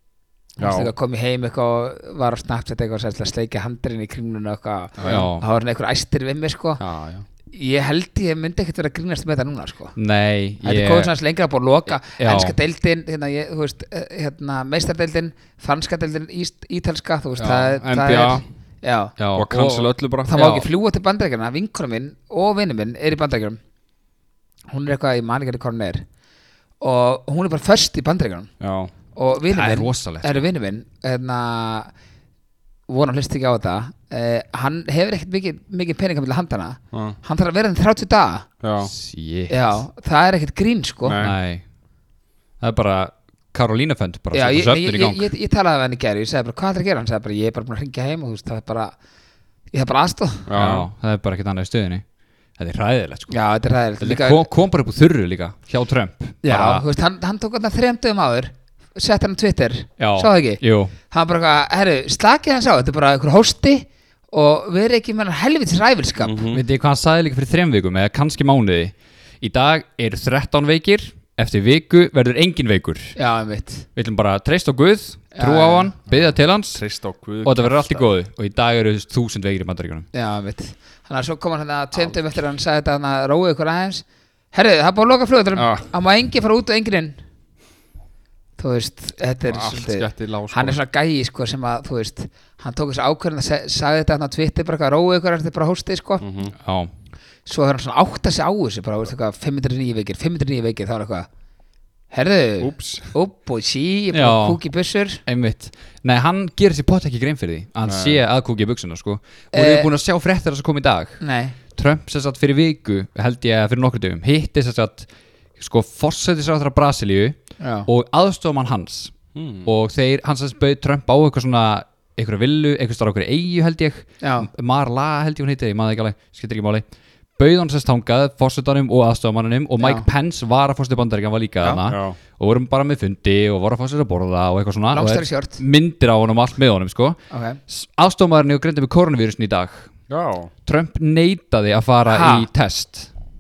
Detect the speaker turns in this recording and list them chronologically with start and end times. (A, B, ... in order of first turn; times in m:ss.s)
0:00.6-0:00.9 A
0:00.6-0:06.8 B
0:05.0-0:05.3 A
0:05.0-0:05.4 C
0:06.8-0:07.3 A
0:07.5-0:10.0 B
0:10.0-0:11.1 C
0:10.6-0:19.2 B
0:12.1-0:12.6 C
0:17.4-0:18.5 A
0:19.2-0:19.9 C
0:19.3-0:20.7 A
0:20.3-0:23.6 B
0:24.7-0:26.0 B
0:26.8-0:28.5 B
0:28.6-0:28.9 A
0:29.1-0:31.9 B
0:29.5-0:30.4 C
0:32.9-0:38.5 B
0:36.9-0:37.2 A
0:38.6-0:38.9 A
0:38.8-0:39.8 C
0:39.5-0:41.2 B
0:41.0-0:41.4 A
0:41.2-0:41.6 C
0:42.6-0:45.3 C
0:44.3-0:49.0 B
0:49.7-0:50.5 B
0:50.5-0:50.9 A
0:50.6-0:52.0 C
0:52.6-0:53.4 C
0:53.3-0:54.5 B
0:54.0-0:56.8 C
0:56.4-1:06.4 B
1:00.0-1:00.9 C
1:06.2-1:06.6 A
1:06.5-1:13.2 C
1:13.2-1:13.9 B
1:14.0-1:16.8 C
1:15.3-1:15.9 B
1:16.1-1:18.0 A
1:17.4-1:20.1 C
1:20.1-1:27.2 B
1:25.6-1:25.9 A
1:28.6-1:36.2 B
1:29.4-1:30.8 A
1:36.2-1:36.5 A
1:36.6-1:36.9 C
1:37.5-1:41.3 B
1:42.1-1:45.2 B
1:42.6-1:43.1 A
1:44.1-1:44.6 C
1:45.3-1:51.2 C
1:47.8-1:48.2 A
1:49.5-1:49.9 B
1:51.2-1:51.6 B
1:51.8-2:06.8 C
1:57.6-1:57.9 B
1:59.4-1:59.7 A
2:04.2-2:04.5 B
2:07.4-2:19.9 C
2:09.8-2:10.1 B
2:11.9-2:12.2 A
2:14.9-2:15.6 B
2:17.3-2:17.6 B
2:20.1-2:20.5 A
2:20.7-2:23.1 C
2:22.1-2:22.5 B